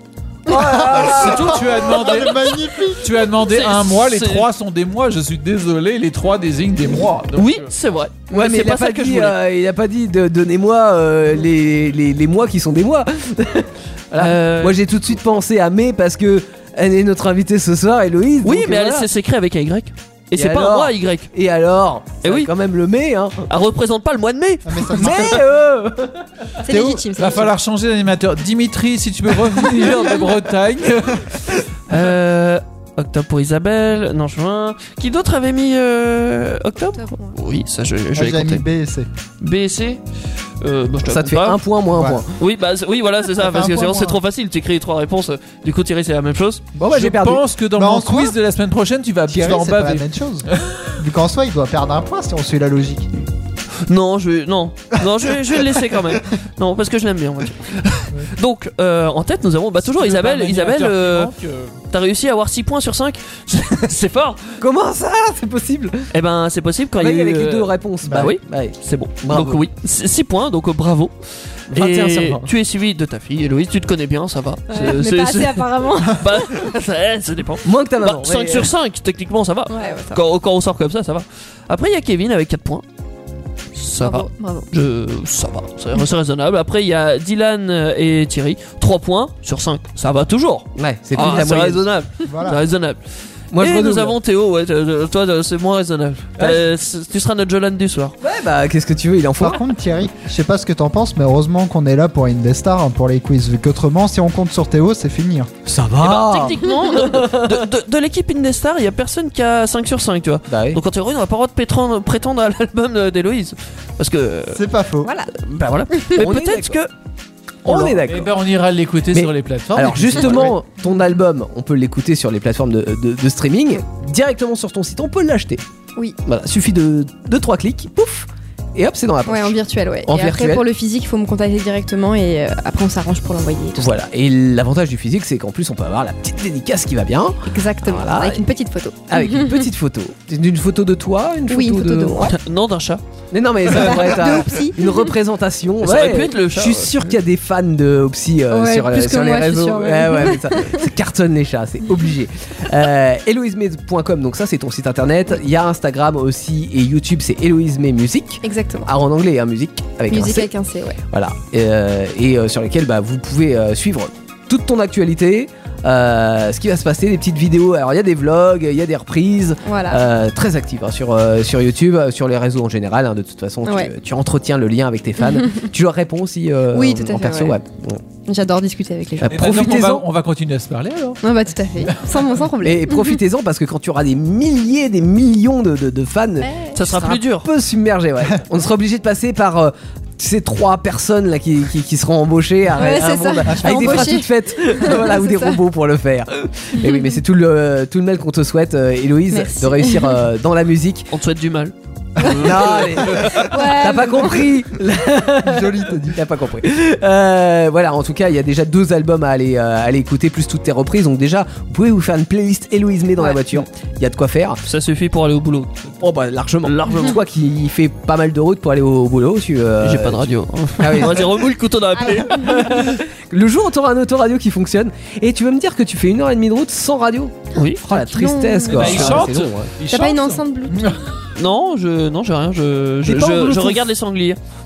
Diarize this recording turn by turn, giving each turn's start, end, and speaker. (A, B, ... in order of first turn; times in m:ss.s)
0:00.5-0:01.5 A
0:00.5-0:03.2 B
0:00.9-0:02.6 C
0:01.4-0:07.7 D
0:03.5-0:04.5 C
0:07.4-0:09.4 C
0:08.3-0:19.1 A
0:14.1-0:14.8 C
0:18.4-0:21.3 C
0:20.4-0:23.4 A
0:22.2-0:22.5 C
0:23.5-0:25.4 C
0:24.7-0:25.5 B
0:24.9-0:26.3 A
0:26.6-0:27.5 E
0:26.7-0:27.3 B
0:27.1-0:31.6 D
0:31.9-0:38.7 C
0:36.9-0:37.4 E
0:38.2-0:39.1 B
0:39.4-0:40.0 C
0:40.6-0:41.6 C
0:41.1-0:42.3 A
0:41.9-0:42.2 B
0:42.4-0:46.6 C
0:43.4-0:44.2 B
0:46.8-0:47.5 A
0:46.9-0:50.9 D
0:47.8-0:48.4 B
0:49.3-0:53.1 B
0:53.9-1:01.3 C
0:59.8-1:01.8 D
1:01.9-1:04.6 C
1:04.6-1:06.1 A
1:06.1-1:22.8 C
1:07.0-1:09.6 A
1:08.0-1:08.3 B
1:11.7-1:12.5 A
1:14.7-1:16.6 E
1:17.6-1:18.7 A
1:19.7-1:20.2 E
1:23.7-1:33.0 C
1:24.0-1:24.7 E
1:30.8-1:31.9 A
1:32.3-1:32.6 B
1:33.5-1:34.2 A
1:33.6-1:38.2 C
1:38.2-1:39.6 A
1:39.4-1:45.5 B
1:45.7-1:47.6 A
1:46.0-1:54.6 C
1:50.5-1:50.8 A
1:54.5-1:55.1 B
1:55.0-1:55.3 E
1:55.3-1:56.9 C
1:56.2-1:56.8 A
1:57.6-1:58.4 A
1:57.7-2:00.6 D
1:59.1-2:05.6 A
2:06.2-2:10.7 A
2:09.3-2:13.9 E
2:13.8-2:18.5 A
2:17.4-2:19.6 E
2:19.1-2:22.3 A
2:21.5-2:22.4 E
2:22.2-2:23.0 C
2:23.3-2:40.5 A
2:23.7-2:24.4 C
2:23.7-2:25.2 E
2:25.8-2:27.2 C
2:28.5-2:30.8 E
2:38.4-2:38.9 E
2:40.1-2:41.0 E
2:41.1-2:58.0 A
2:49.6-2:50.0 E
2:53.6-2:53.9 E
2:56.7-2:57.6 E
2:58.2-2:59.9 E
2:59.2-3:00.1 A
2:59.3-3:01.2 D
3:01.2-3:03.2 E
3:01.8-3:02.3 D
3:02.6-3:21.1 A
3:06.4-3:06.8 E
3:06.8-3:07.5 C
3:12.8-3:15.6 E
3:13.5-3:14.2 B
3:16.8-3:17.1 E
3:19.3-3:20.2 E
3:21.1-3:23.5 C
3:22.2-3:34.6 A
3:23.4-3:24.5 E
3:25.4-3:26.2 B
3:34.6-3:36.0 C
3:36.0-3:49.7 A
3:36.6-3:37.2 C
3:39.8-3:43.0 C
3:42.0-3:42.9 E
3:47.6-3:47.8 C
3:47.9-3:49.2 E
3:48.7-3:51.1 D
3:48.8-3:49.4 C
3:49.8-3:51.0 E
3:51.4-3:54.4 C
3:53.0-3:53.8 A